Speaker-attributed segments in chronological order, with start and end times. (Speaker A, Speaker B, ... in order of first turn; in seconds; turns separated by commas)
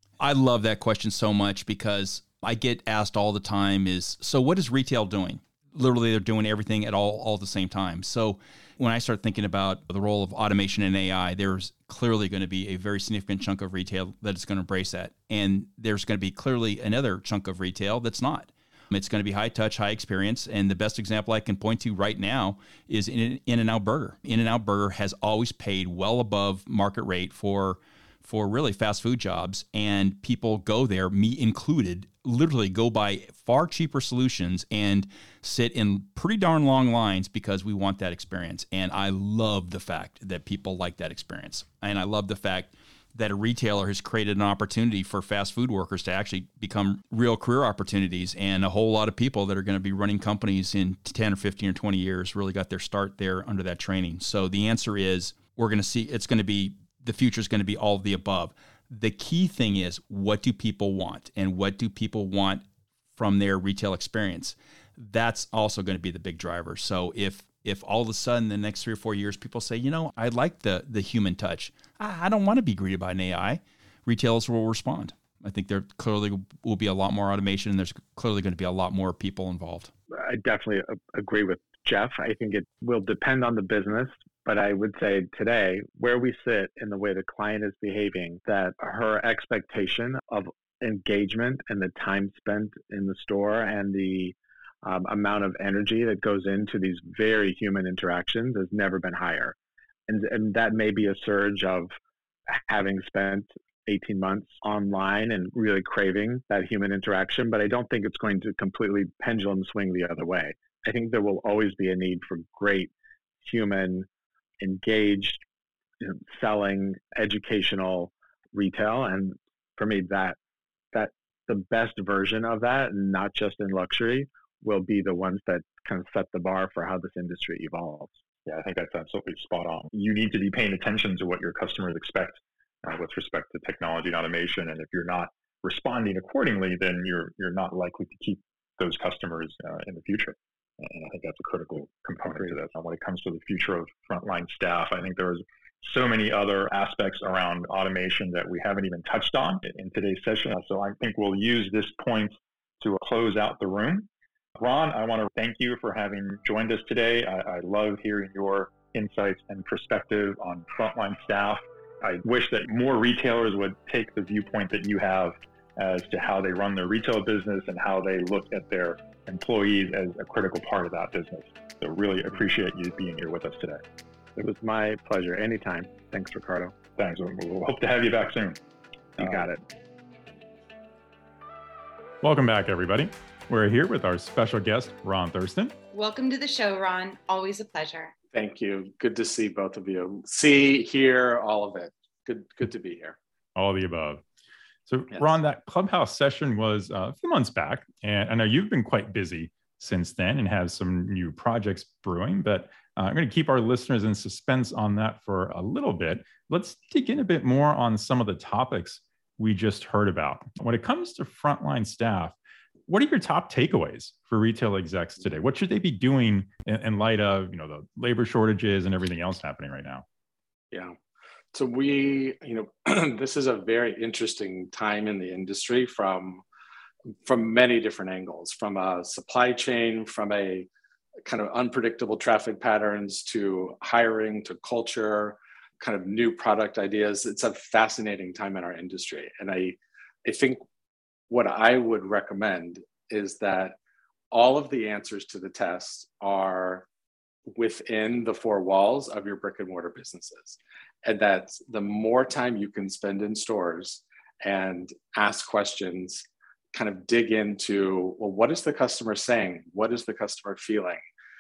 Speaker A: 0.2-79.9, Speaker B: 80.1-99.5, Speaker B: 100.1-102.0, Speaker B: 102.5-112.9, Speaker B: 113.4-114.1, Speaker B: 114.6-115.4, Speaker B: 116.0-120.4, Speaker B: 120.9-128.2, Speaker C: 128.5-173.8, Speaker B: 174.4-176.7, Speaker C: 177.0-178.6, Speaker B: 179.2-179.6, Speaker C: 179.2-179.5, Speaker D: 182.2-185.7, Speaker E: 185.9-188.1, Speaker F: 188.3-193.2, Speaker D: 193.6-194.2, Speaker D: 194.9-212.3, Speaker D: 212.9-220.1, Speaker F: 220.7-221.0, Speaker F: 221.5-226.4, Speaker F: 227.3-230.7, Speaker F: 231.3-240.6, Speaker F: 241.3-243.8, Speaker F: 244.3-246.9, Speaker F: 247.5-261.0